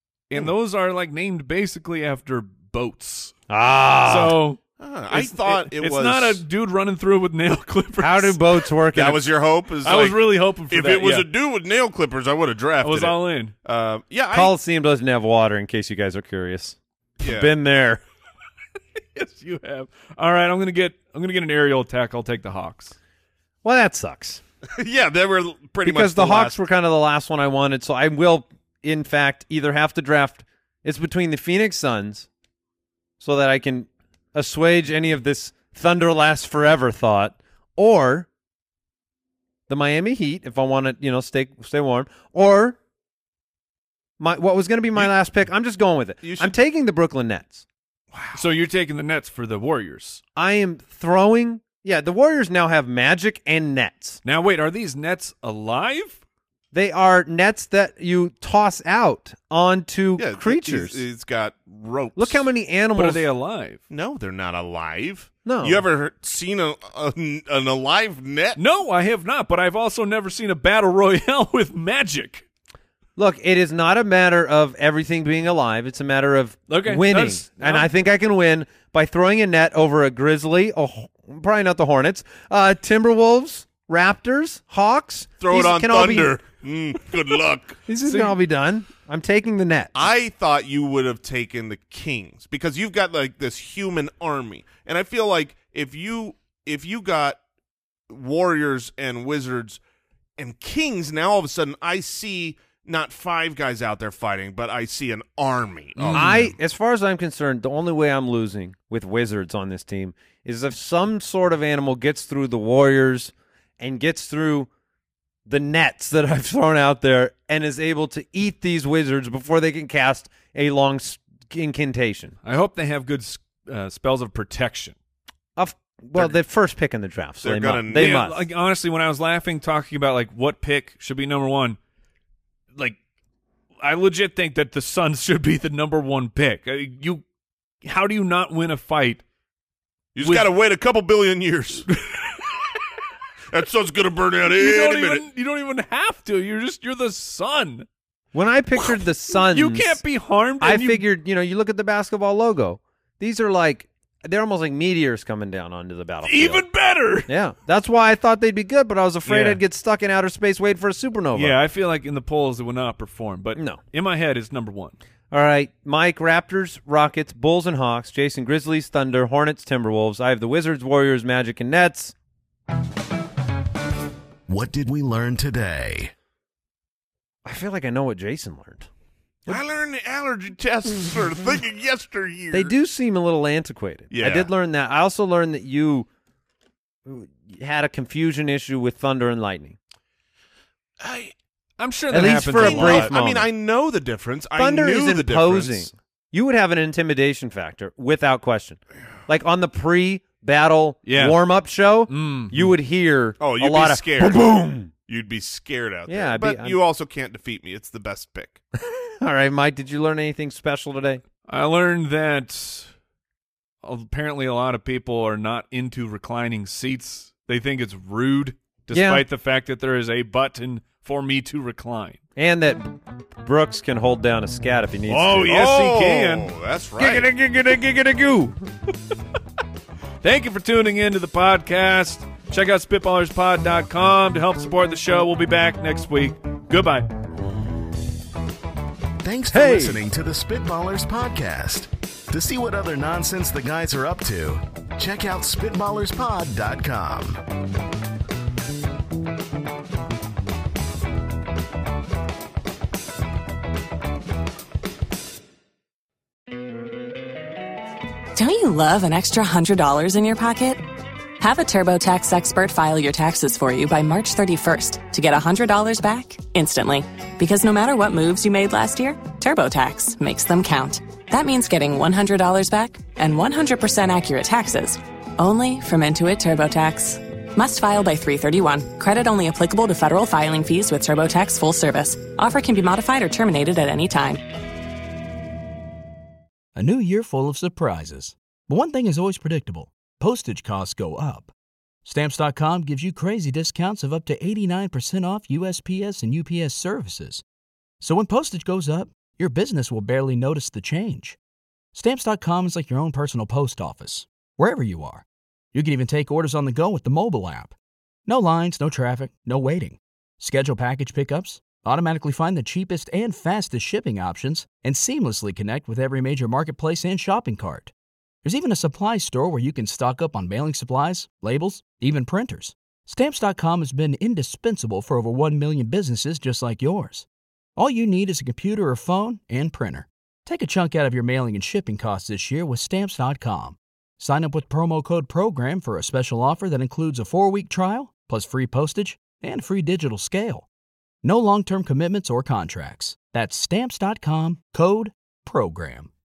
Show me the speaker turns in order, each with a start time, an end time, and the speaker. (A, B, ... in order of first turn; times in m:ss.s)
0:00.3-0:03.4 A
0:03.5-0:04.4 B
0:04.1-0:04.6 A
0:04.8-0:06.4 C
0:05.1-0:08.6 A
0:08.0-0:09.2 B
0:08.9-0:14.5 C
0:09.8-0:11.3 A
0:12.8-0:13.5 A
0:14.3-0:18.0 B
0:17.2-0:17.5 C
0:19.1-0:23.0 A
0:23.6-0:24.4 B
0:24.8-0:26.6 C
0:25.8-0:32.3 B
0:33.2-0:38.3 B
0:39.7-0:42.8 B
0:44.2-0:47.6 B
0:46.2-0:46.5 C
0:48.1-0:48.4 C
0:48.3-0:50.2 A
0:50.4-0:54.2 B
0:54.2-0:56.2 A
0:56.7-1:01.0 B
1:00.2-1:02.5 C
1:02.2-1:03.3 B
1:03.0-1:03.8 A
1:03.9-1:08.6 C
1:05.4-1:05.8 B
1:08.6-1:12.4 A
1:13.2-1:26.3 B
1:16.7-1:17.9 A
1:25.4-1:27.8 C
1:27.9-1:30.1 B
1:28.0-1:28.4 A
1:30.0-1:37.4 C
1:38.1-1:39.8 C
1:40.4-1:46.5 C
1:46.0-1:46.5 A
1:46.1-1:54.7 B
1:55.5-2:02.4 B
2:02.4-2:05.0 A
2:05.6-2:08.4 B
2:07.4-2:08.3 C
2:07.9-2:11.8 A
2:13.8-2:17.2 A
2:17.8-2:19.2 A
2:20.2-2:21.9 C
2:23.5-2:25.2 C
2:24.6-2:27.9 A
2:28.3-2:30.0 B
2:29.5-2:31.0 A
2:30.6-2:36.7 B
2:36.2-2:37.3 A
2:37.3-2:41.6 B
2:41.4-2:45.0 A
2:43.6-2:43.8 B
2:45.3-2:52.1 B
2:54.5-2:56.1 D
2:57.4-2:58.9 B
2:59.5-3:02.7 C
3:02.5-3:06.1 B
3:04.1-3:04.5 C
3:07.0-3:09.8 B
3:11.0-3:11.3 C
3:11.8-3:13.1 A
3:12.1-3:13.5 B
3:12.5-3:15.9 C
3:14.6-3:24.9 B
3:21.0-3:21.4 A
3:22.1-3:22.7 A
3:23.4-3:24.5 C
3:25.1-3:28.6 C
3:26.1-3:26.8 B
3:28.8-3:31.2 B
3:31.5-3:32.9 A
3:33.8-3:42.2 A
3:38.9-3:39.2 B
3:42.4-3:45.6 B
3:45.1-3:46.5 A
3:45.5-3:47.3 C
3:47.0-3:48.6 B
3:50.2-3:57.1 A
3:59.2-4:07.4 D
3:59.5-4:00.0 B
4:18.4-4:20.8 E
4:21.4-4:44.4 E
4:46.8-4:51.5 F
4:52.0-4:57.4 F
4:58.0-5:01.4 F
5:01.9-5:07.8 F
5:08.3-5:17.9 F
5:18.4-5:40.7 F
5:41.2-5:46.1 F